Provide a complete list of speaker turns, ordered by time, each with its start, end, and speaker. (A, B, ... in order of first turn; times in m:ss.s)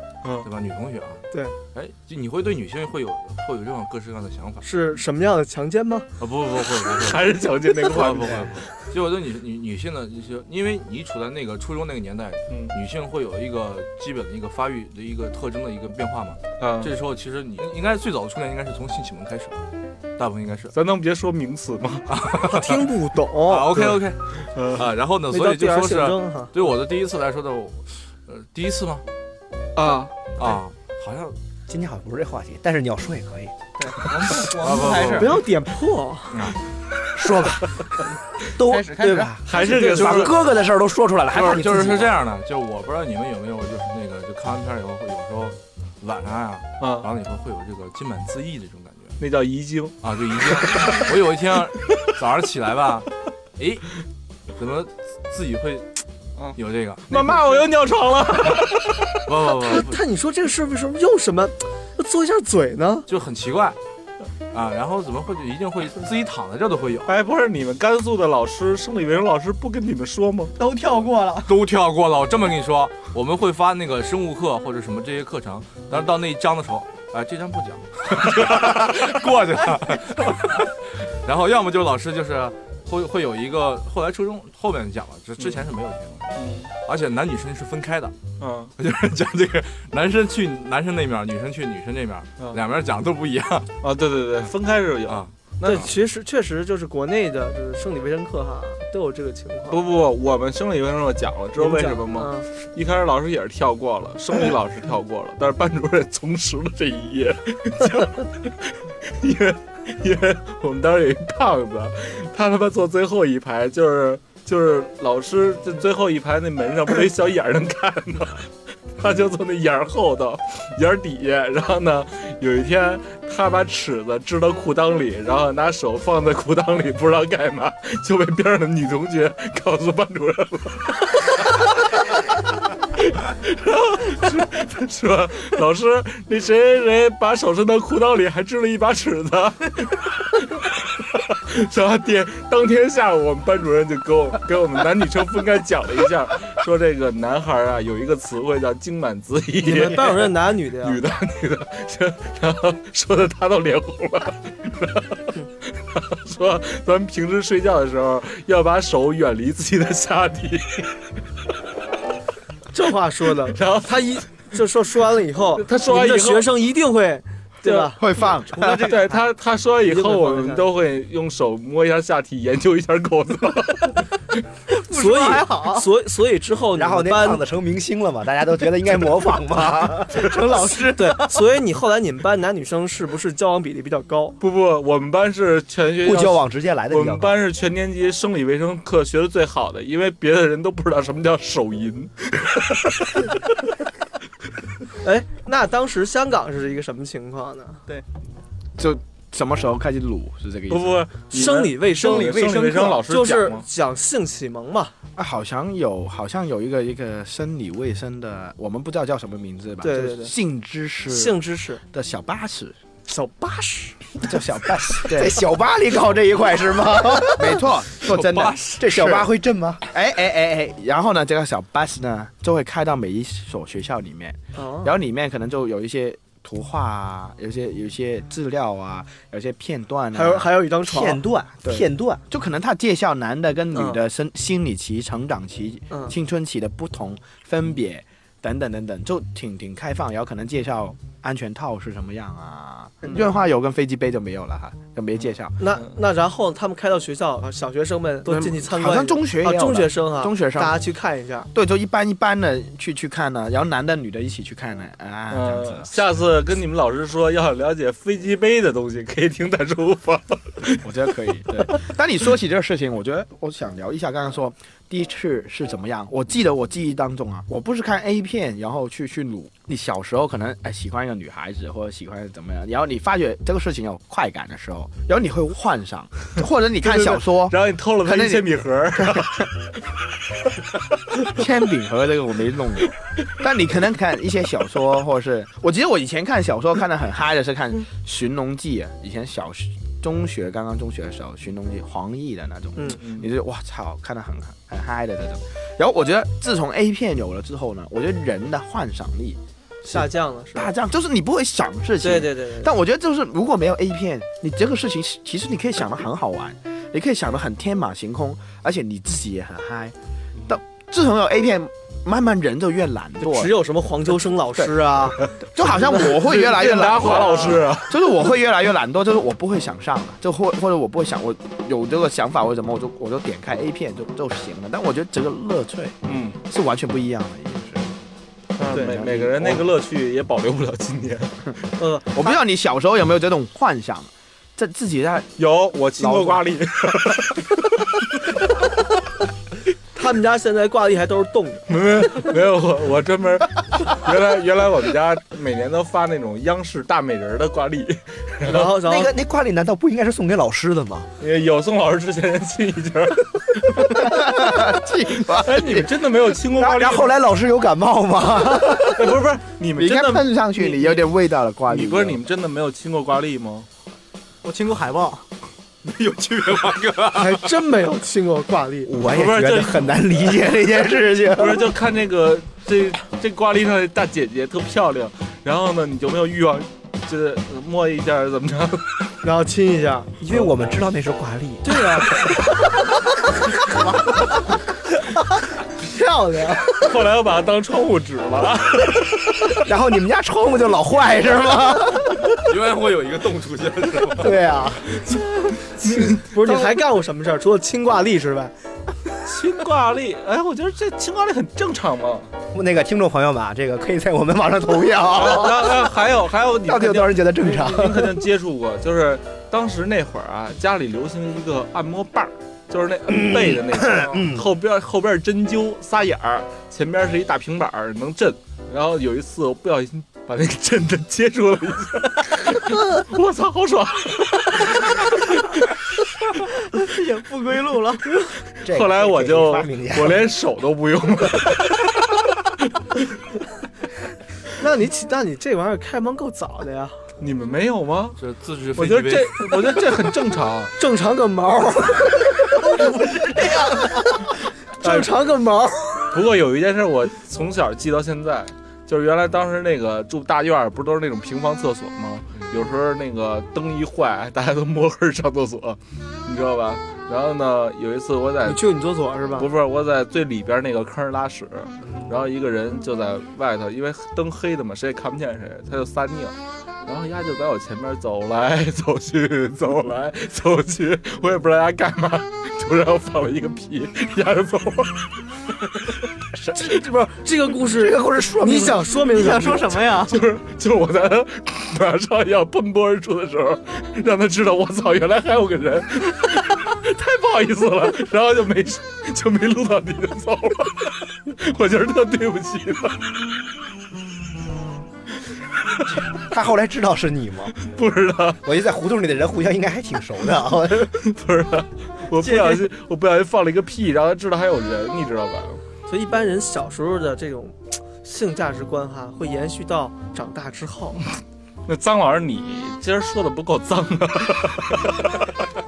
0:00.4-0:04.7 A
0:04.6-0:06.1 B
0:06.2-0:19.6 A
0:06.8-0:08.7 C
0:12.5-0:12.8 C
0:16.6-0:16.9 C
0:20.2-0:20.8 A
0:20.7-0:22.1 C
0:22.1-0:22.9 A
0:22.4-0:23.7 B
0:23.4-0:29.0 A
0:23.7-0:24.9 C
0:25.3-0:26.5 B
0:29.8-0:30.1 C
0:30.4-0:31.4 A
0:31.7-0:33.6 D
0:33.8-0:35.3 E
0:34.3-0:35.4 A
0:34.7-0:35.2 C
0:35.2-0:36.4 B
0:36.3-0:36.6 A
0:37.1-0:42.2 D
0:38.6-0:40.2 E
0:39.4-0:40.4 C
0:41.3-0:49.2 A
0:46.8-0:47.1 C
0:49.2-0:51.0 C
0:50.0-0:53.9 A
0:54.6-0:56.0 A
0:56.5-0:57.7 A
0:57.1-0:59.1 C
0:59.3-1:00.0 A
0:59.6-1:03.1 B
1:03.1-1:03.8 A
1:04.5-1:07.2 A
1:07.1-1:10.5 C
1:10.6-1:11.6 E
1:11.5-1:28.2 A
1:18.5-1:19.0 C
1:26.4-1:26.7 C
1:28.4-1:28.7 C
1:28.8-1:33.7 A
1:33.8-1:35.9 C
1:35.1-1:35.9 A
1:35.6-1:39.8 B
1:39.7-2:12.2 C
1:41.6-1:42.5 B
2:13.0-2:40.9 C
2:29.6-2:31.0 B
2:42.7-2:48.0 B
2:43.5-2:44.2 C
2:45.6-2:46.5 C
2:47.6-2:48.0 C
2:48.0-2:48.6 F
2:48.5-2:49.2 E
2:48.6-2:54.4 C
2:49.8-2:50.6 B
2:54.7-2:55.9 E
2:54.9-2:57.4 B
2:56.8-3:00.4 D
3:00.1-3:01.4 E
3:00.9-3:04.4 B
3:04.4-3:13.3 C
3:06.0-3:07.4 D
3:15.0-3:17.8 B
3:18.8-3:21.0 F
3:20.7-3:23.7 C
3:21.3-3:24.9 B
3:25.2-3:31.4 F
3:29.8-3:30.3 B
3:31.1-3:31.8 B
3:31.9-3:32.8 F
3:33.1-3:34.0 B
3:34.2-3:35.4 F
3:35.1-3:37.6 D
3:37.2-3:50.5 F
3:38.0-3:38.9 A
3:38.8-3:39.8 D
3:44.6-3:44.9 B
3:50.1-3:51.2 B
3:50.9-3:52.2 D
3:51.6-4:05.6 F
3:53.7-3:54.0 B
4:05.6-4:11.5 B
4:08.3-4:10.8 F
4:11.5-4:16.0 F
4:15.3-4:20.9 C
4:20.7-4:39.5 F
4:36.8-4:39.6 C
4:41.3-5:10.0 F
4:52.8-4:53.0 B
4:59.9-5:00.7 B
5:02.0-5:02.7 E
5:10.5-5:13.5 F
5:13.2-5:17.6 B
5:15.3-5:27.9 F
5:16.2-5:18.0 C
5:26.0-5:26.4 C
5:28.6-5:31.5 C
5:28.7-5:29.6 F
5:31.8-5:32.4 B
5:32.1-5:35.3 F
5:35.4-5:38.3 C
5:36.0-5:36.4 F
5:40.0-5:41.7 B
5:41.7-5:48.7 C
5:48.4-5:49.1 B
5:48.6-5:51.1 D
5:51.2-5:54.3 C
5:53.9-5:55.9 F
5:55.3-5:57.2 C
5:56.5-5:59.1 D
5:58.8-6:01.1 C
5:59.8-6:02.2 F
6:01.7-6:03.7 C
6:04.4-6:05.2 E
6:05.8-6:07.6 A
6:07.1-6:08.9 B
6:08.9-6:11.7 D
6:09.1-6:09.9 C
6:11.4-6:18.9 C
6:19.2-6:20.2 B
6:20.2-6:22.3 D
6:21.6-6:22.4 B
6:25.8-6:26.9 B
6:26.8-6:29.3 C
6:29.5-6:32.4 D
6:32.4-6:34.4 A
6:34.1-6:35.0 D
6:35.8-6:36.3 C
6:35.9-6:38.5 B
6:39.2-6:42.3 C
6:42.5-6:45.9 D
6:45.1-7:05.7 C
6:46.6-6:48.2 D
6:53.1-6:54.5 D
7:06.8-7:08.2 E
7:08.5-7:12.1 C
7:08.6-7:10.3 D
7:14.6-7:17.0 B
7:17.2-7:18.2 C
7:18.2-7:19.5 A
7:18.8-7:20.7 C
7:20.8-7:24.3 B
7:24.8-7:26.1 B
7:24.8-7:25.2 C
7:26.1-7:38.6 C
7:38.4-7:39.5 B
7:39.4-7:55.0 C
7:55.7-7:55.9 C
7:56.4-7:59.8 B
7:57.7-7:58.9 D
7:59.1-8:00.2 E
8:00.1-8:13.0 C
8:15.9-8:17.6 D
8:17.6-8:18.4 C
8:18.4-8:21.0 D
8:21.0-8:25.6 C
8:22.2-8:22.6 E
8:25.9-8:31.0 B
8:31.7-8:35.3 C